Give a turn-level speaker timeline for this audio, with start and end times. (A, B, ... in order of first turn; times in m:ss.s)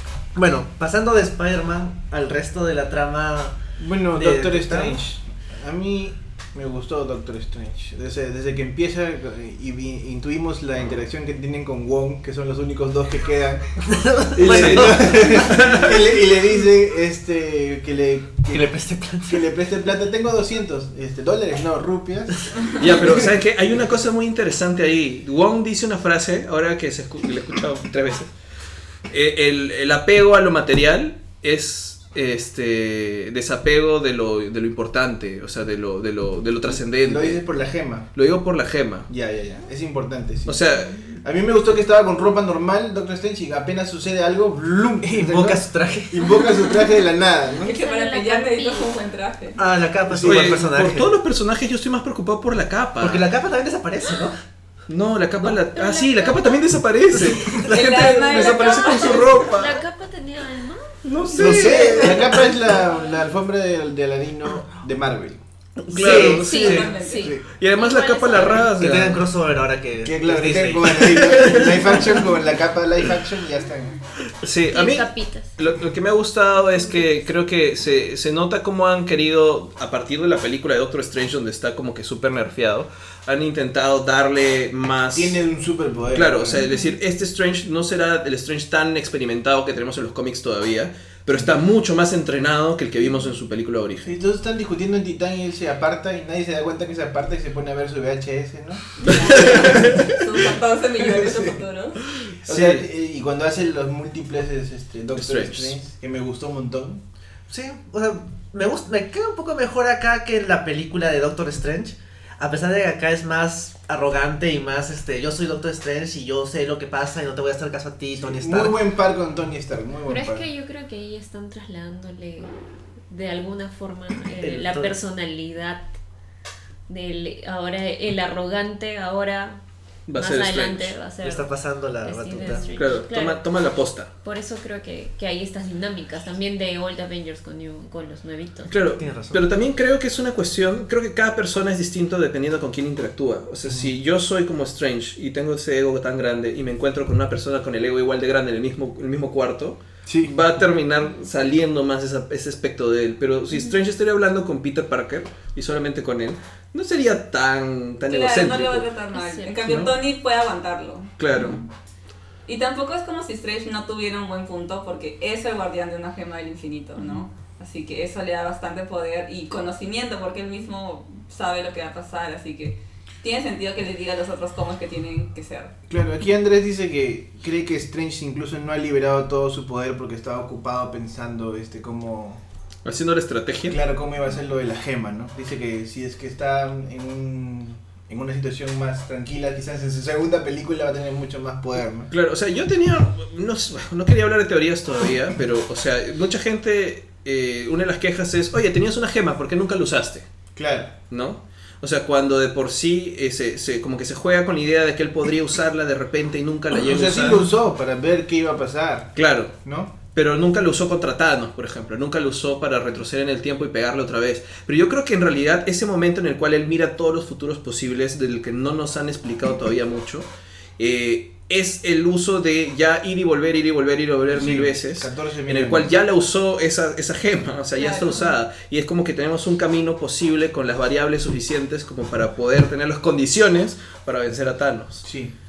0:00.3-0:03.6 A
0:03.8-0:13.8 B
0:04.1-0:05.0 A
0:13.8-0:15.6 A
0:14.3-0:18.7 B
0:14.4-0:16.1 C
0:18.5-0:19.5 A
0:19.3-0:23.3 B
0:22.8-0:28.3 C
0:29.1-0:37.4 C
0:36.7-0:38.1 B
0:38.1-0:39.1 C
0:39.1-0:47.8 B
0:40.5-0:40.9 C
0:45.0-0:46.4 A
0:47.6-0:49.6 D
0:47.6-0:49.0 E
0:49.6-0:51.1 A
0:50.1-0:50.6 B
0:50.2-0:53.2 C
0:53.0-0:54.4 A
0:54.9-0:59.8 C
0:55.7-0:56.6 E
0:57.1-0:57.8 A
0:57.5-0:59.3 D
0:58.2-1:01.0 E
1:01.0-1:02.2 C
1:01.3-1:02.5 A
1:01.3-1:05.4 B
1:05.9-1:06.8 A
1:05.9-1:09.2 C
1:06.0-1:07.3 D
1:06.3-1:08.8 E
1:08.7-1:11.8 A
1:10.0-1:14.0 B
1:11.2-1:12.2 C
1:14.4-1:25.4 C
1:14.7-1:15.6 E
1:16.7-1:17.0 E
1:25.1-1:26.6 B
1:26.1-1:34.2 C
1:26.6-1:26.9 E
1:34.0-1:40.1 B
1:39.0-1:42.0 D
1:39.1-1:40.2 C
1:41.0-1:41.6 B
1:42.2-1:42.8 C
1:42.4-1:47.0 B
1:45.1-1:45.8 C
1:47.5-1:58.8 A
1:58.2-2:00.4 B
2:00.0-2:02.5 E
2:03.1-2:05.9 E
2:04.4-2:05.0 A
2:06.9-2:09.6 E
2:10.1-2:10.9 C
2:10.1-2:13.4 E
2:11.2-2:12.7 A
2:12.7-2:14.1 C
2:14.2-2:18.7 E
2:18.7-2:38.9 C
2:19.0-2:19.5 A
2:30.0-2:30.4 B
2:38.0-2:41.6 D
2:39.1-2:39.8 E
2:39.6-2:39.9 C
2:41.2-2:41.6 C
2:42.4-2:55.7 D
2:55.9-3:02.4 B
3:02.8-3:03.8 C
3:03.7-3:12.1 B
3:12.1-3:20.3 C
3:20.5-3:21.0 B
3:21.1-3:27.4 C
3:26.7-3:29.9 B
3:29.1-3:29.5 C
3:30.1-3:40.3 C
3:40.8-3:55.0 C
3:44.3-3:46.0 B
3:47.7-3:48.4 D
3:55.0-3:55.3 B